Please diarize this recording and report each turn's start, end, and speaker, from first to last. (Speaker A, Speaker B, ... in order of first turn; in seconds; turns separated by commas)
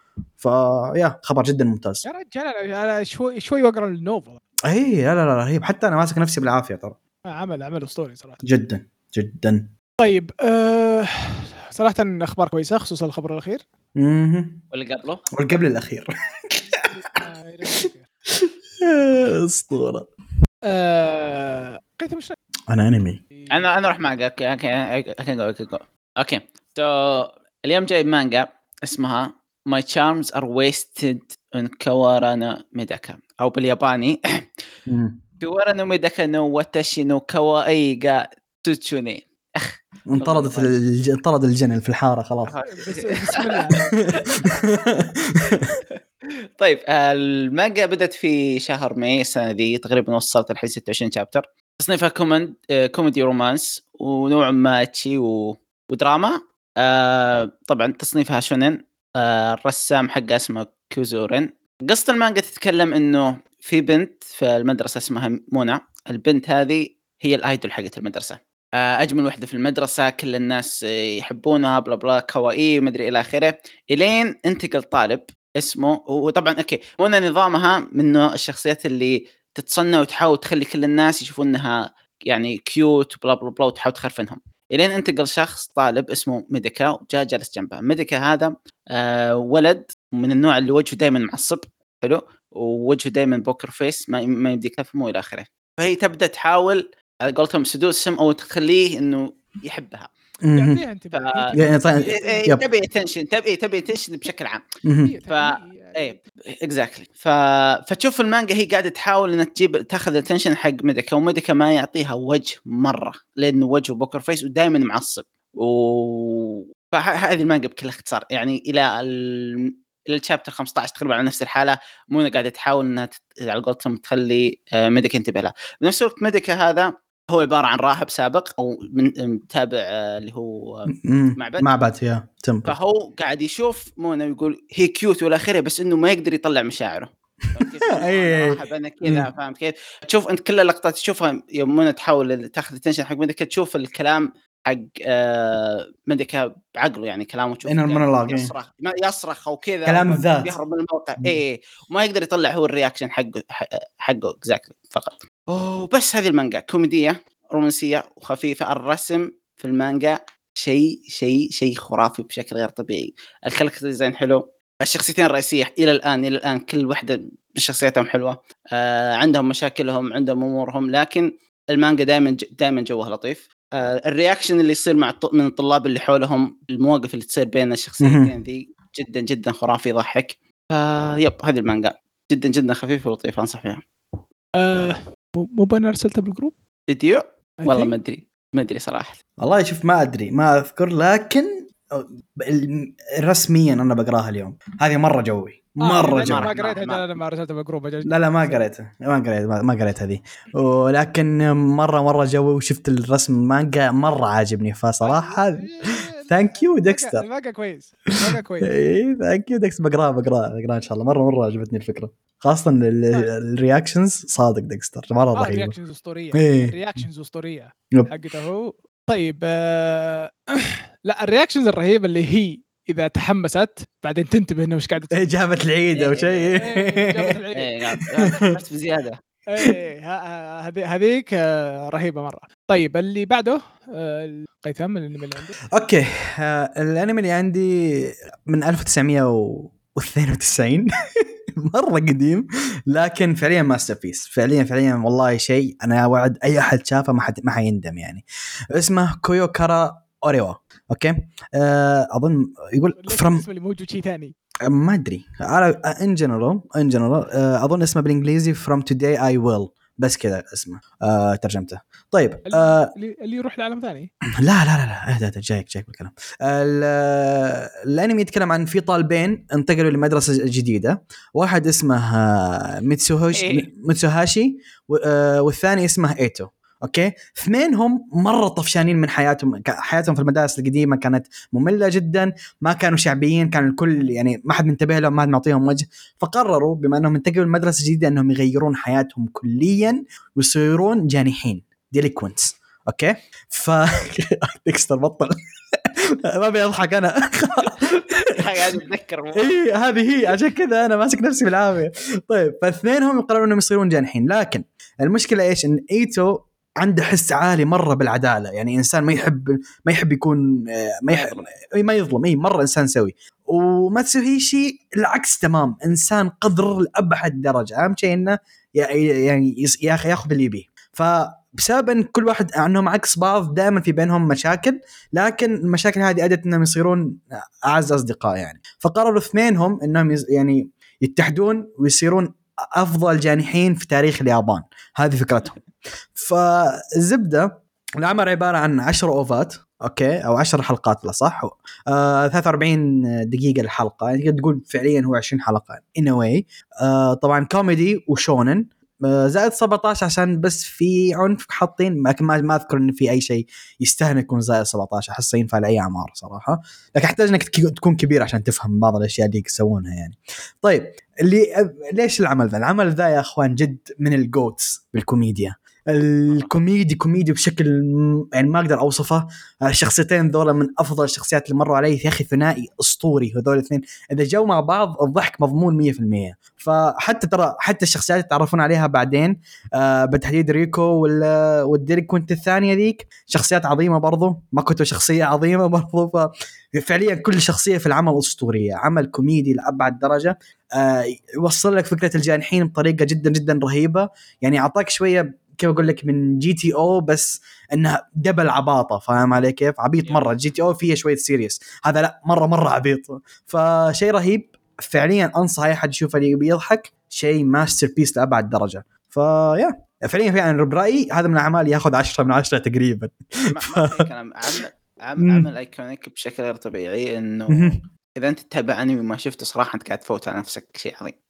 Speaker A: 0.4-2.0, Speaker B: 2.0-4.4, Speaker A: 4.7-7.0, Speaker B: 7.3-8.4, Speaker A: 8.4-9.7, Speaker B: 10.0-13.6, Speaker A: 13.9-14.6, Speaker C: 14.7-15.3, Speaker A: 15.3-17.2, Speaker B: 17.1-18.1, Speaker A: 17.8-20.1, Speaker B: 20.7-22.4, Speaker A: 22.7-23.2, Speaker C: 23.5-34.2, Speaker A: 34.9-35.2, Speaker C: 35.4-40.7, Speaker A: 40.1-42.5, Speaker C: 42.5-43.8, Speaker B: 42.7-44.0, Speaker A: 44.2-45.7, Speaker C: 45.5-46.0, Speaker C: 46.6-100.1, Speaker A: 100.4-100.8, Speaker B: 100.5-102.5, Speaker C: 101.1-104.7, Speaker A: 101.6-102.6, Speaker A: 104.8-105.2, Speaker B: 105.0-106.2, Speaker C: 105.3-131.7, Speaker A: 131.0-132.8, Speaker C: 132.7-183.8, Speaker A: 137.6-139.3, Speaker A: 147.7-148.5, Speaker A: 149.9-150.6, Speaker A: 178.0-178.3, Speaker B: 184.6-186.5, Speaker C: 186.9-189.2, Speaker B: 187.6-187.9, Speaker A: 189.4-196.5, Speaker B: 195.8-198.7, Speaker C: 196.0-197.1, Speaker A: 198.1-207.2, Speaker B: 205.0-208.7, Speaker A: 208.6-215.8, Speaker B: 215.3-225.3, Speaker A: 216.3-216.8, Speaker A: 225.1-227.4, Speaker C: 225.9-226.6, Speaker B: 226.6-227.7, Speaker C: 227.6-229.2, Speaker A: 228.2-228.5, Speaker B: 229.5-235.6, Speaker A: 235.7-253.5, Speaker B: 253.0-254.3, Speaker A: 254.7-262.9, Speaker B: 262.5-264.1, Speaker A: 264.4-295.4, Speaker C: 273.3-273.6, Speaker A: 295.9-298.7, Speaker C: 298.2-299.6, Speaker A: 299.4-335.6, Speaker C: 311.1-311.5, Speaker A: 336.1-414.1, Speaker C: 400.0-400.5, Speaker C: 413.5-421.1, Speaker A: 415.2-415.5, Speaker A: 417.5-417.8